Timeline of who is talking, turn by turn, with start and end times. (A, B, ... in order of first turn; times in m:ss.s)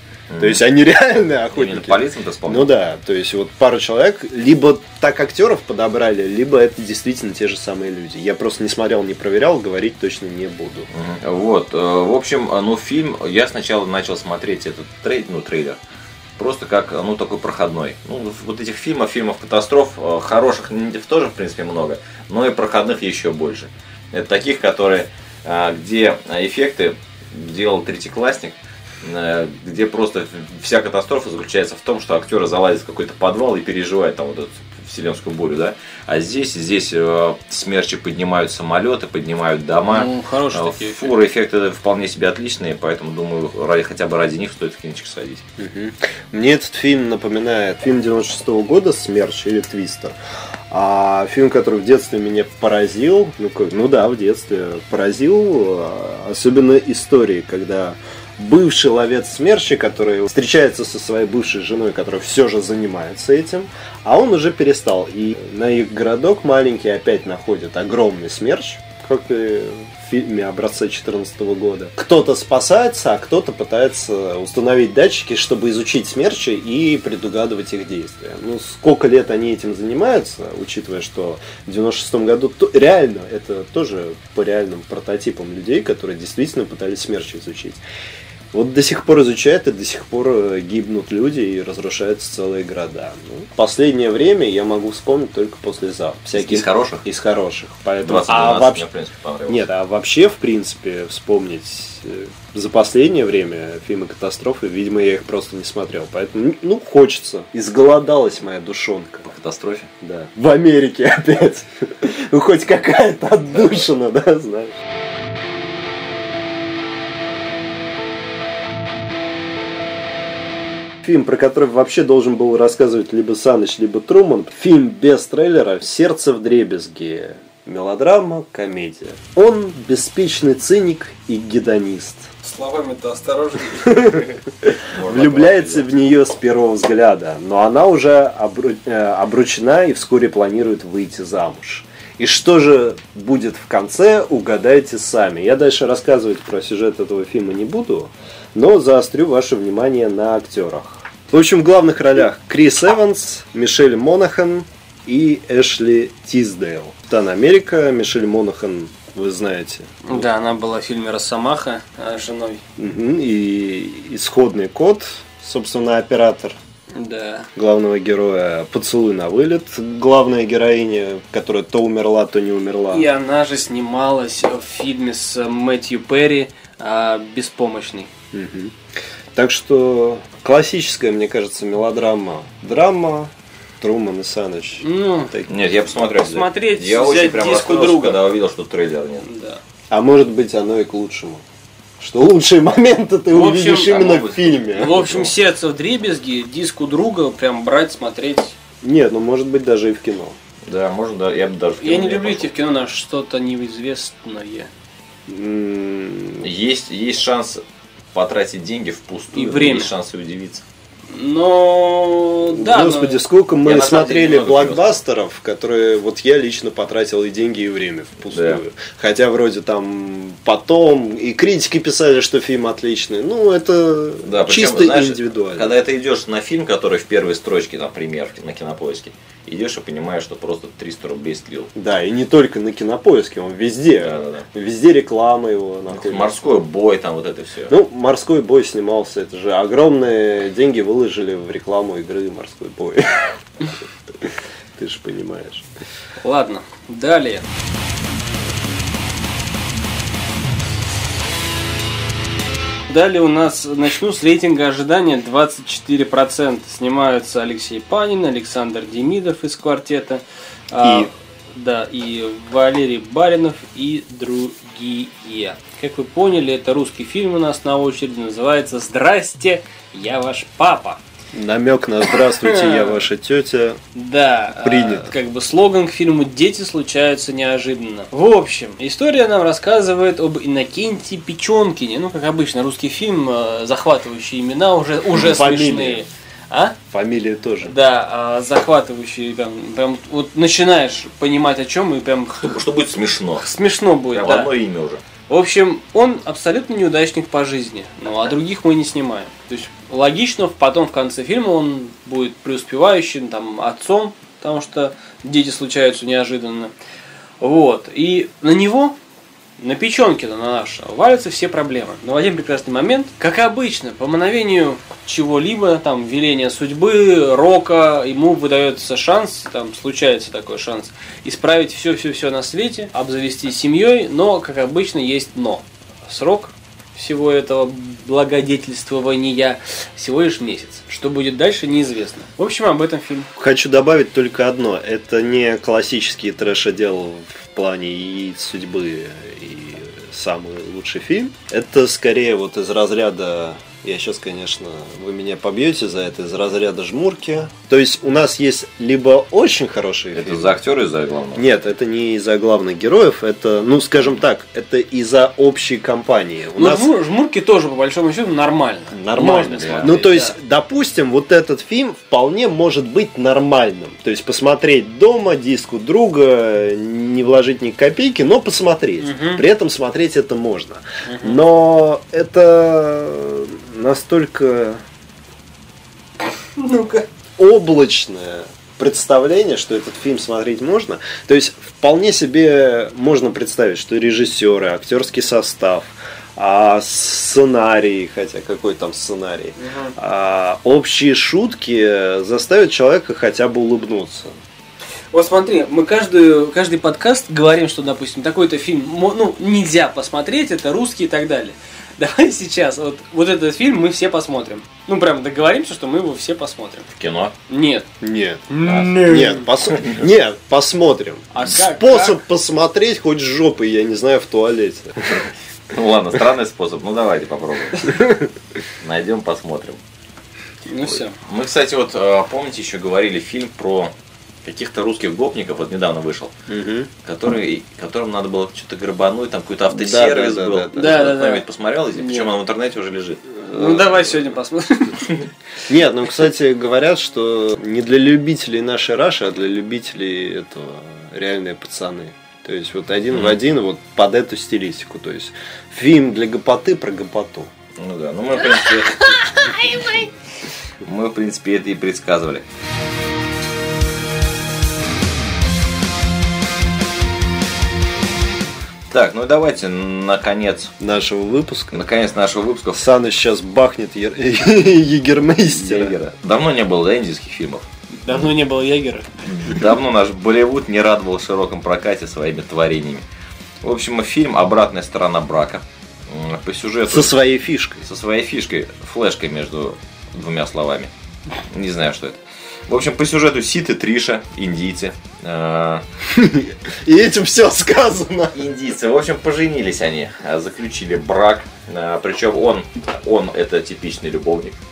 0:00.3-0:00.6 A
0:00.4-0:10.9 B
0:01.5-0:02.7 A
0:10.9-0:15.8 A
0:16.4-0:45.4 A
0:39.9-0:41.1 C
0:45.6-0:50.2 B
0:50.7-1:27.8 B
1:28.5-1:38.8 B
1:36.3-1:37.0 A
1:38.0-1:39.7 A
1:39.5-1:49.3 B
1:49.2-1:49.9 A
1:50.0-1:54.8 B
2:01.0-2:12.3 B
2:12.4-2:14.2 C
2:13.8-2:40.3 B
2:14.9-2:15.9 A
2:40.0-2:42.6 C
2:42.8-2:46.6 B
2:46.9-2:47.5 C
2:47.6-2:53.1 B
2:52.9-2:58.1 C
2:58.3-2:58.8 B
2:59.3-3:05.6 B
3:04.8-3:05.3 C
3:05.4-3:09.2 A
3:06.0-3:08.3 C
3:09.2-3:09.6 C
3:09.9-3:11.4 B
3:12.0-3:15.3 B
3:13.3-3:14.0 C
3:13.7-3:15.2 A
3:14.7-3:18.5 C
3:18.8-3:20.4 B
3:20.7-3:22.5 A
3:21.8-3:24.7 C
3:25.3-3:26.5 B
3:26.4-3:27.6 A
3:28.1-3:30.6 A
3:29.3-3:29.9 C
3:31.1-3:33.2 C
3:32.5-3:45.8 B
3:33.6-3:35.0 A
3:38.3-3:38.6 A
3:44.2-3:51.7 A
3:51.8-3:56.4 B
3:54.0-3:54.4 A
3:55.9-3:57.7 A
3:57.7-4:03.3 B
4:04.8-4:05.6 B
4:06.2-4:07.4 C
4:12.9-4:31.0 C
4:20.8-4:21.1 B
4:31.3-4:33.8 B
4:32.0-4:33.0 C
4:33.9-4:46.8 C
4:34.5-4:35.1 B
4:45.1-4:46.0 B
4:46.9-4:47.7 B
4:47.6-4:52.6 C
4:52.4-4:53.5 A
4:53.4-4:54.5 C
4:54.1-4:55.0 A
4:55.3-5:06.7 C
5:07.4-5:08.9 C
5:09.6-5:33.3 C
5:33.4-5:50.6 B
5:50.1-5:51.4 A
5:51.3-5:56.9 B
5:56.6-6:00.4 C
5:58.9-6:14.8 B
5:59.4-6:00.0 A
6:09.0-6:09.4 C
6:11.0-6:11.4 C
6:16.6-6:17.0 C
6:17.4-6:34.3 B
6:29.6-6:29.9 C
6:35.1-6:46.9 C
6:46.9-6:47.3 A
6:47.5-6:47.9 C
6:48.0-6:55.2 B
6:48.5-6:49.5 C
6:48.6-6:48.9 A
6:49.8-6:50.0 A
6:51.3-6:52.2 C
6:55.7-6:58.0 A
6:57.8-6:58.3 B
6:58.8-6:59.8 A
7:00.6-7:01.2 C
7:00.8-7:03.9 A
7:04.4-7:06.3 A
7:06.5-7:06.9 B
7:07.0-7:13.9 A
7:09.7-7:11.0 B
7:10.7-7:12.3 C
7:13.5-7:15.2 C
7:13.5-7:14.0 B
7:15.7-7:27.5 B
7:23.1-7:23.4 A
7:27.8-7:30.0 A
7:28.6-7:30.1 C
7:30.8-7:32.4 A
7:38.9-7:40.7 A
7:40.8-7:41.8 B
7:41.7-7:42.8 A
7:42.7-7:46.0 B
7:45.4-7:47.6 A
7:48.0-7:49.1 C
7:49.2-7:53.0 A
7:53.6-7:57.2 A
7:56.9-7:57.8 B
7:57.8-8:00.9 A
8:01.5-8:05.8 A
8:06.1-8:08.4 B
8:08.3-8:14.6 A